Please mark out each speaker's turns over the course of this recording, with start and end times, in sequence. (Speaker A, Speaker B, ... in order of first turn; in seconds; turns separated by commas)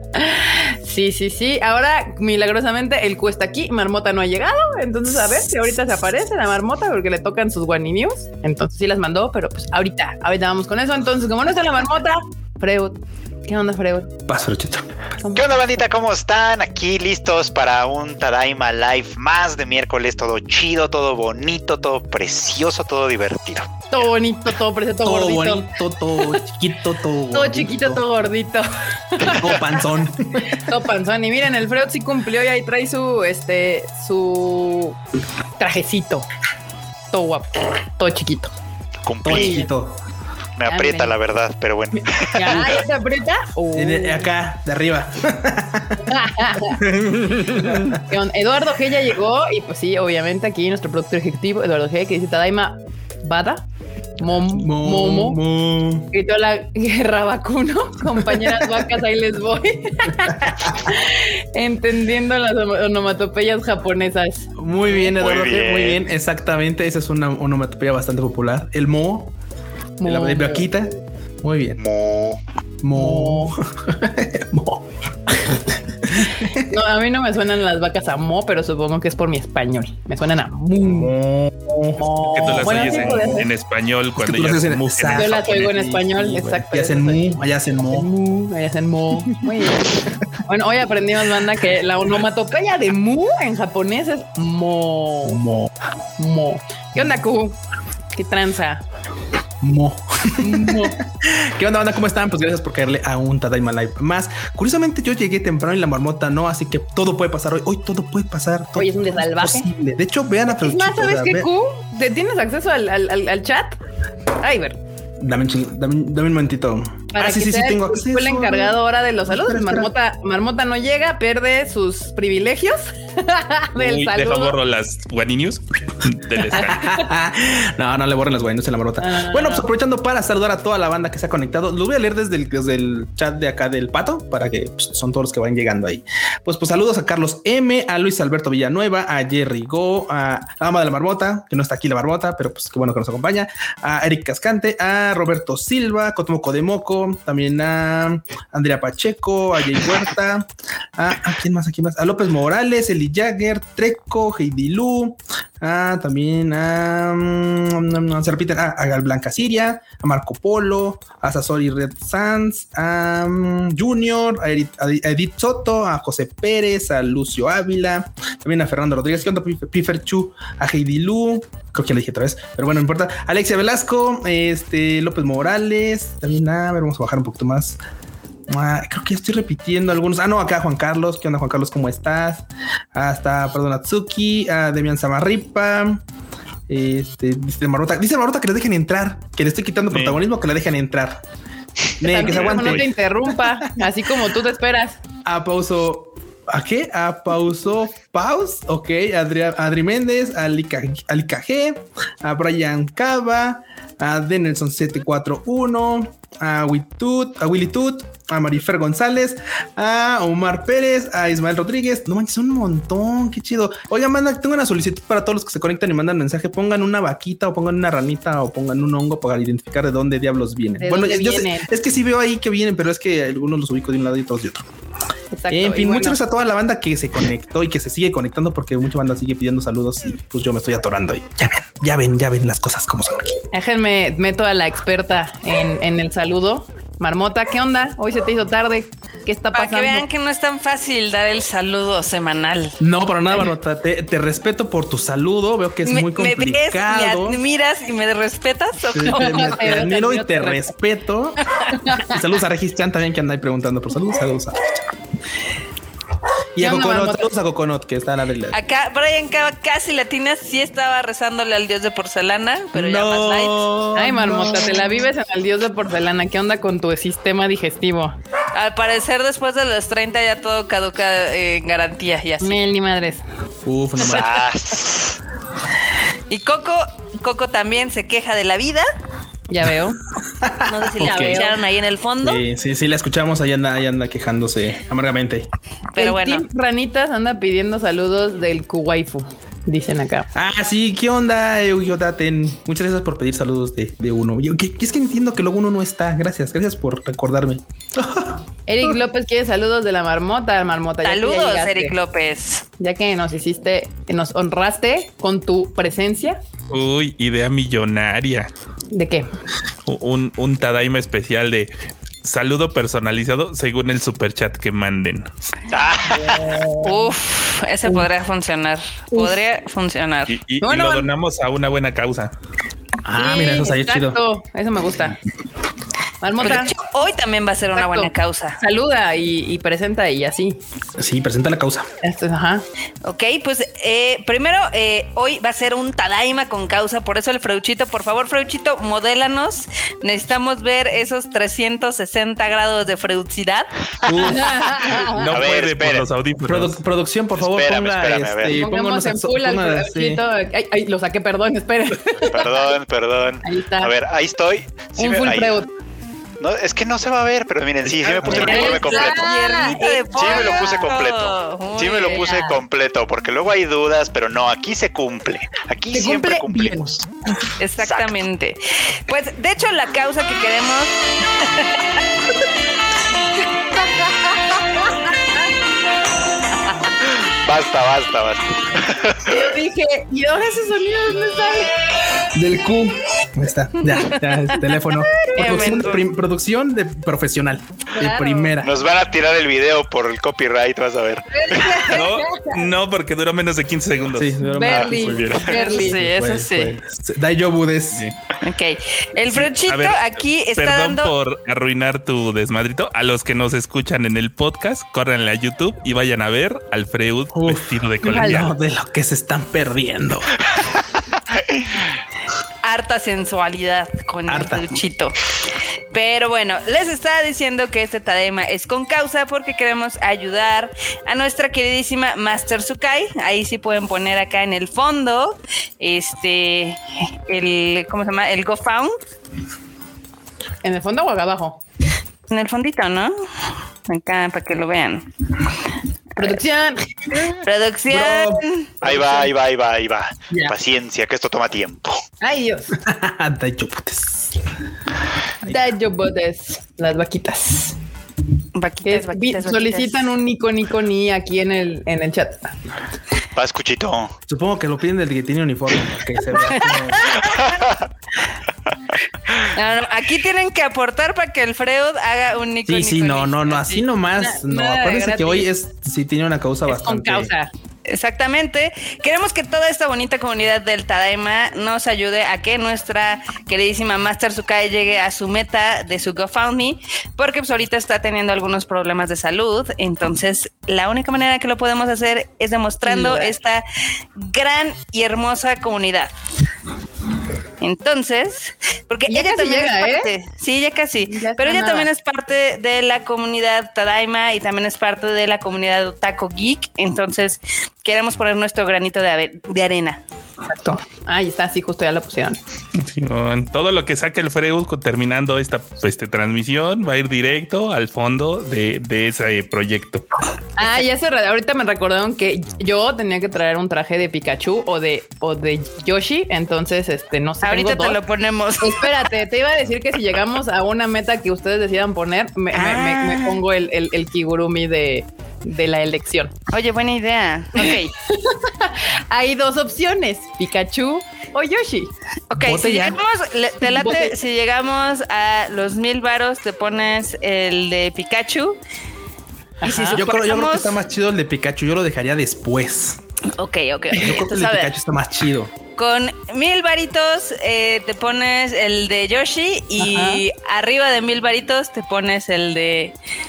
Speaker A: 0.1-14.2, Speaker B: 14.3-14.9, Speaker C: 15.3-24.0, Speaker A: 23.9-25.7, Speaker B: 25.0-28.0, Speaker A: 27.3-29.6, Speaker B: 29.3-30.6, Speaker A: 30.4-35.0, Speaker A: 35.6-36.3, Speaker A: 37.1-38.5, Speaker C: 39.0-39.6, Speaker B: 39.2-40.0, Speaker A: 39.3-39.7, Speaker C: 40.6-42.8, Speaker A: 40.7-41.1, Speaker A: 42.3-44.3, Speaker B: 42.5-42.8, Speaker B: 43.7-46.1, Speaker A: 46.0-46.9, Speaker B: 46.8-48.0, Speaker A: 47.4-53.7, Speaker A: 54.2-55.4, Speaker B: 54.5-56.1, Speaker A: 56.1-65.1, Speaker B: 58.2-58.8, Speaker B: 64.6-69.3, Speaker C: 65.1-66.0, Speaker A: 70.0-70.7, Speaker B: 70.0-71.8, Speaker C: 71.8-72.4, Speaker B: 72.8-74.9, Speaker A: 72.9-73.5, Speaker B: 75.5-76.8, Speaker A: 76.6-81.1, Speaker B: 80.8-83.5, Speaker A: 82.0-83.5, Speaker D: 82.2-85.8, Speaker B: 84.2-88.1, Speaker A: 85.1-87.3, Speaker A: 87.9-95.4, Speaker B: 89.2-89.5, Speaker B: 95.3-95.7, Speaker A: 96.2-97.6, Speaker A: 98.1-98.8, Speaker B: 99.6-111.5, Speaker A: 100.4-101.0, Speaker A: 108.8-109.7, Speaker A: 110.5-113.8, Speaker A: 114.4-114.8, Speaker B: 115.2-119.9, Speaker A: 117.1-124.6, Speaker D: 123.8-126.9, Speaker B: 126.5-177.8, Speaker A: 129.0-129.7, Speaker B: 178.5-186.0, Speaker B: 186.7-191.2, Speaker D: 189.9-190.2, Speaker B: 192.0-193.7, Speaker A: 192.0-195.0, Speaker D: 192.2-192.9, Speaker B: 195.2-224.7, Speaker A: 220.8-221.7, Speaker A: 225.3-226.2, Speaker B: 225.5-233.3, Speaker A: 233.5-240.1, Speaker E: 239.5-242.8, Speaker B: 242.8-247.4, Speaker E: 245.8-249.6, Speaker B: 248.9-251.4, Speaker A: 249.1-250.7, Speaker A: 251.7-252.2, Speaker B: 252.0-254.8, Speaker B: 256.6-258.6, Speaker A: 256.6-257.3, Speaker E: 258.5-263.7, Speaker B: 262.7-264.9, Speaker A: 264.0-268.1, Speaker E: 268.5-272.6, Speaker A: 272.4-273.2, Speaker B: 273.6-274.4, Speaker C: 274.0-275.1, Speaker E: 276.3-278.9, Speaker A: 279.5-280.0, Speaker B: 280.4-281.4, Speaker E: 280.7-282.4, Speaker A: 280.7-281.6, Speaker B: 282.2-285.5, Speaker E: 285.9-286.4, Speaker A: 286.0-290.3, Speaker B: 290.3-299.0, Speaker A: 298.7-301.9, Speaker E: 301.0-302.7, Speaker A: 302.8-306.4, Speaker D: 306.7-308.5, Speaker A: 308.9-309.3, Speaker D: 309.9-311.7, Speaker D: 312.2-315.3, Speaker C: 315.7-316.6, Speaker A: 316.1-317.1, Speaker E: 316.8-320.4, Speaker A: 319.1-319.4, Speaker D: 320.3-322.3, Speaker A: 320.6-321.1, Speaker B: 323.0-324.2, Speaker A: 323.1-325.2, Speaker A: 326.2-326.7, Speaker E: 326.4-328.6, Speaker A: 327.7-330.6, Speaker B: 331.0-331.9, Speaker A: 332.0-332.6, Speaker E: 333.0-343.7, Speaker B: 344.0-345.0, Speaker A: 344.2-345.3, Speaker D: 345.1-346.8, Speaker C: 345.2-346.1, Speaker B: 346.4-350.2, Speaker C: 347.4-348.6, Speaker A: 348.5-352.7, Speaker C: 352.3-355.6, Speaker A: 353.4-353.9, Speaker A: 355.0-355.7, Speaker C: 356.4-359.3, Speaker B: 358.0-358.7, Speaker A: 358.2-360.4, Speaker E: 358.2-362.6, Speaker C: 360.1-367.1, Speaker A: 362.1-362.5, Speaker A: 365.9-366.8, Speaker B: 366.0-366.7, Speaker E: 367.6-372.0, Speaker C: 367.8-368.1, Speaker C: 377.2-379.5, Speaker A: 379.3-381.8, Speaker B: 382.3-388.8, Speaker A: 385.2-386.0, Speaker A: 387.9-388.6, Speaker C: 388.6-392.0, Speaker A: 391.3-392.6, Speaker D: 391.9-394.4, Speaker B: 394.1-398.1, Speaker A: 394.5-396.0, Speaker C: 394.7-395.4, Speaker E: 395.5-396.8, Speaker E: 398.4-401.1, Speaker D: 399.3-408.5, Speaker B: 407.3-410.3, Speaker E: 412.6-415.1, Speaker B: 414.3-414.7, Speaker E: 415.9-428.9, Speaker A: 430.6-431.6, Speaker E: 432.3-433.1, Speaker E: 433.9-435.1, Speaker A: 436.2-437.2, Speaker E: 437.4-438.7, Speaker B: 437.9-438.4, Speaker C: 438.8-442.0, Speaker A: 438.8-439.3, Speaker A: 442.2-442.8, Speaker B: 442.8-444.3, Speaker A: 445.4-447.8, Speaker E: 448.6-450.1, Speaker A: 448.9-452.5, Speaker C: 453.4-454.1, Speaker B: 454.3-457.2, Speaker E: 456.7-457.3, Speaker C: 457.2-457.9, Speaker E: 459.5-463.9, Speaker B: 462.6-467.3, Speaker A: 464.2-465.5, Speaker A: 466.7-467.5, Speaker E: 467.9-483.6, Speaker A: 482.9-483.3, Speaker E: 484.2-486.1, Speaker E: 487.6-500.0, Speaker A: 489.1-490.1, Speaker A: 491.0-491.9, Speaker A: 500.5-502.4, Speaker D: 502.8-510.1, Speaker A: 510.6-518.0, Speaker E: 517.4-519.1, Speaker A: 518.6-526.4, Speaker E: 522.5-523.4, Speaker E: 526.5-527.9, Speaker A: 527.6-531.9, Speaker E: 532.3-538.6, Speaker B: 532.4-533.0, Speaker A: 533.6-534.1, Speaker A: 539.6-540.0, Speaker E: 539.6-540.8, Speaker B: 539.9-543.0, Speaker E: 543.3-544.7, Speaker B: 544.0-545.5, Speaker E: 545.8-553.0, Speaker A: 549.8-550.2